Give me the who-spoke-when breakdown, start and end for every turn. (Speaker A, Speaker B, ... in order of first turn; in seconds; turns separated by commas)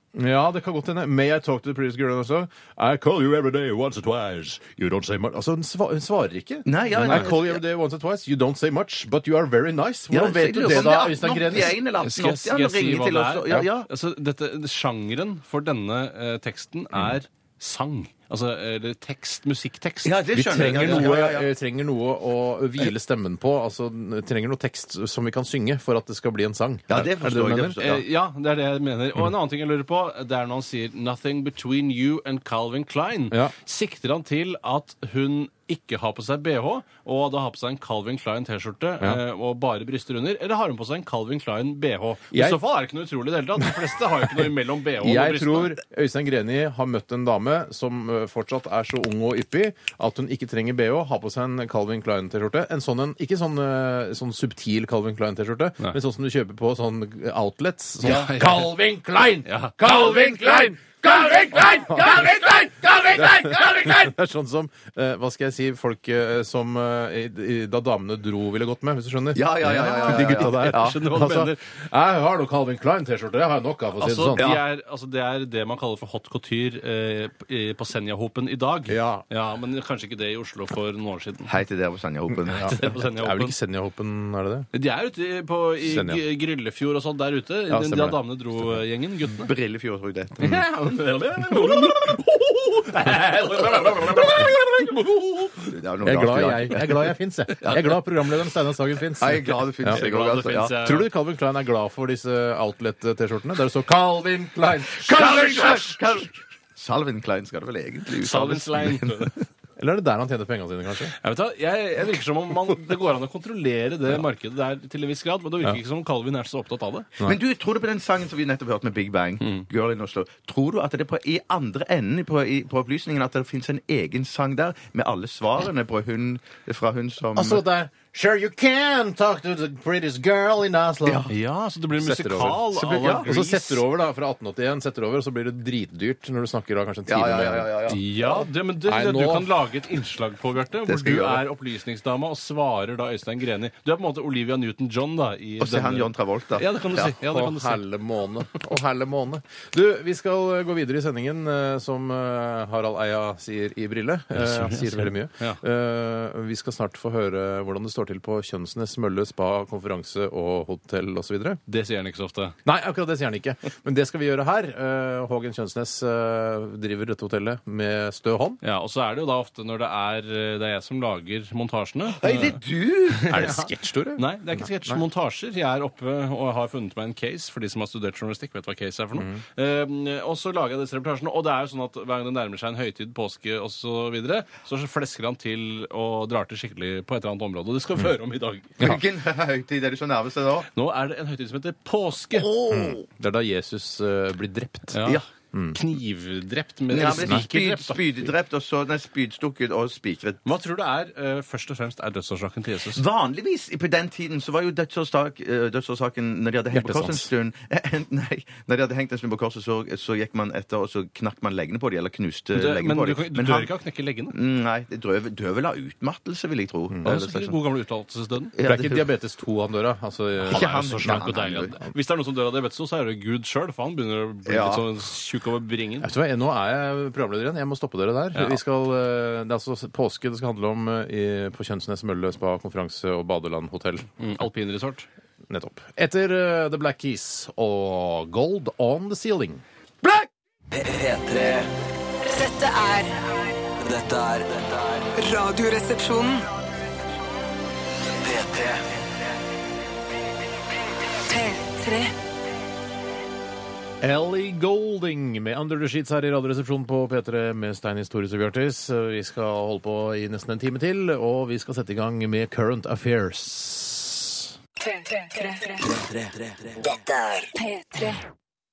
Speaker A: 0.1-11.8, Speaker B: 6.7-7.6, Speaker C: 7.0-7.3, Speaker B: 10.1-13.9, Speaker C: 12.0-21.1, Speaker B: 20.0-21.5, Speaker A: 20.3-27.8, Speaker B: 26.9-28.0, Speaker C: 27.8-45.8, Speaker A: 42.3-42.6, Speaker A: 43.6-74.5, Speaker C: 58.0-58.7, Speaker C: 59.5-59.8, Speaker B: 59.9-60.5, Speaker B: 69.3-71.0, Speaker C: 69.9-71.6, Speaker C: 74.0-81.5, Speaker B: 74.4-74.6, Speaker A: 78.9-79.2, Speaker B: 81.5-82.9, Speaker A: 82.5-84.7, Speaker C: 82.5-83.5, Speaker C: 84.7-89.5, Speaker A: 85.8-86.2, Speaker A: 87.7-88.8, Speaker B: 89.4-90.6, Speaker C: 90.4-95.7, Speaker B: 95.7-97.9, Speaker A: 96.0-100.0, Speaker B: 99.2-100.7, Speaker C: 99.8-101.1, Speaker A: 100.7-106.0, Speaker B: 105.0-109.0, Speaker C: 108.2-109.3, Speaker A: 109.8-111.1, Speaker C: 111.2-117.1, Speaker B: 117.2-127.6, Speaker A: 127.3-131.2, Speaker B: 131.0-131.3, Speaker C: 131.3-133.8, Speaker A: 132.0-137.7, Speaker B: 132.7-133.3, Speaker B: 137.1-138.0, Speaker C: 137.9-147.8, Speaker A: 138.8-139.5, Speaker B: 140.8-141.4, Speaker B: 145.6-147.0, Speaker A: 147.0-161.6, Speaker C: 154.3-155.6, Speaker C: 161.7-162.5, Speaker A: 162.6-168.6, Speaker C: 168.6-172.6, Speaker B: 172.2-173.4, Speaker C: 173.1-189.0, Speaker A: 173.3-175.0, Speaker A: 179.2-179.4, Speaker B: 188.8-190.7, Speaker C: 190.7-192.5, Speaker B: 192.3-193.0, Speaker A: 192.7-195.8, Speaker C: 194.9-195.2, Speaker C: 195.7-198.1, Speaker B: 196.9-200.4, Speaker A: 197.1-197.5, Speaker C: 200.4-203.0, Speaker B: 202.9-213.7, Speaker A: 206.7-207.3, Speaker C: 212.5-214.3, Speaker B: 214.3-217.6, Speaker C: 217.0-218.5, Speaker B: 218.5-219.1, Speaker A: 218.6-221.9, Speaker C: 220.5-226.1, Speaker B: 220.5-221.8, Speaker B: 224.4-224.8, Speaker A: 226.0-234.1, Speaker C: 234.2-235.1, Speaker A: 235.5-239.6, Speaker D: 240.7-241.7, Speaker E: 242.2-243.3, Speaker D: 243.8-245.1, Speaker E: 245.2-246.5, Speaker D: 248.2-248.8, Speaker E: 251.3-252.1, Speaker A: 254.0-264.4, Speaker E: 264.9-265.8, Speaker D: 265.8-267.5, Speaker E: 267.6-268.2